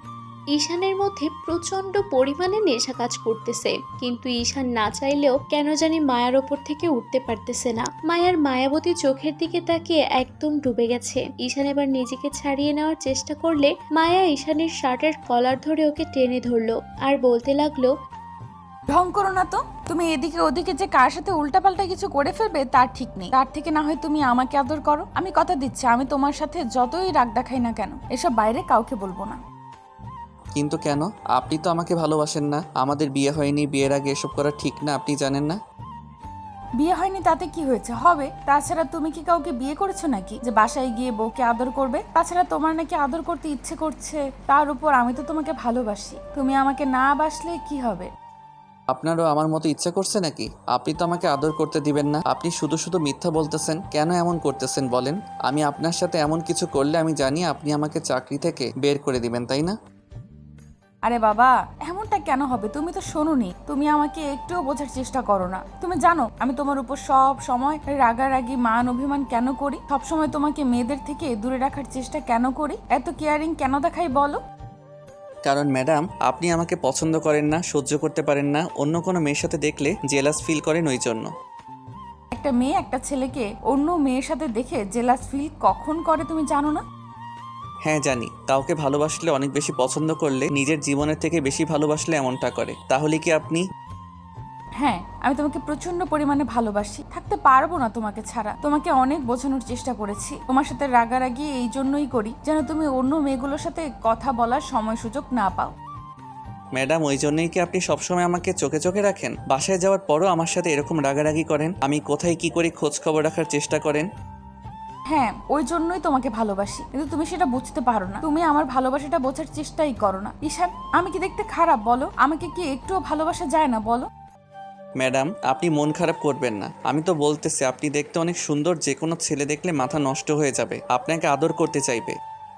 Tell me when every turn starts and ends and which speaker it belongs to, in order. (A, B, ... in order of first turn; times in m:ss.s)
0:00.6-0:17.9 A
0:18.9-0:29.4 B
0:30.6-0:35.6 C
0:36.8-0:48.1 B
0:48.9-0:59.8 C
1:01.1-1:14.4 B
1:15.4-1:21.3 C
1:22.4-1:26.8 B
1:27.9-1:33.6 C
1:34.8-1:45.7 B
1:46.8-1:54.1 C
1:55.1-2:04.1 B
2:05.0-2:12.2 C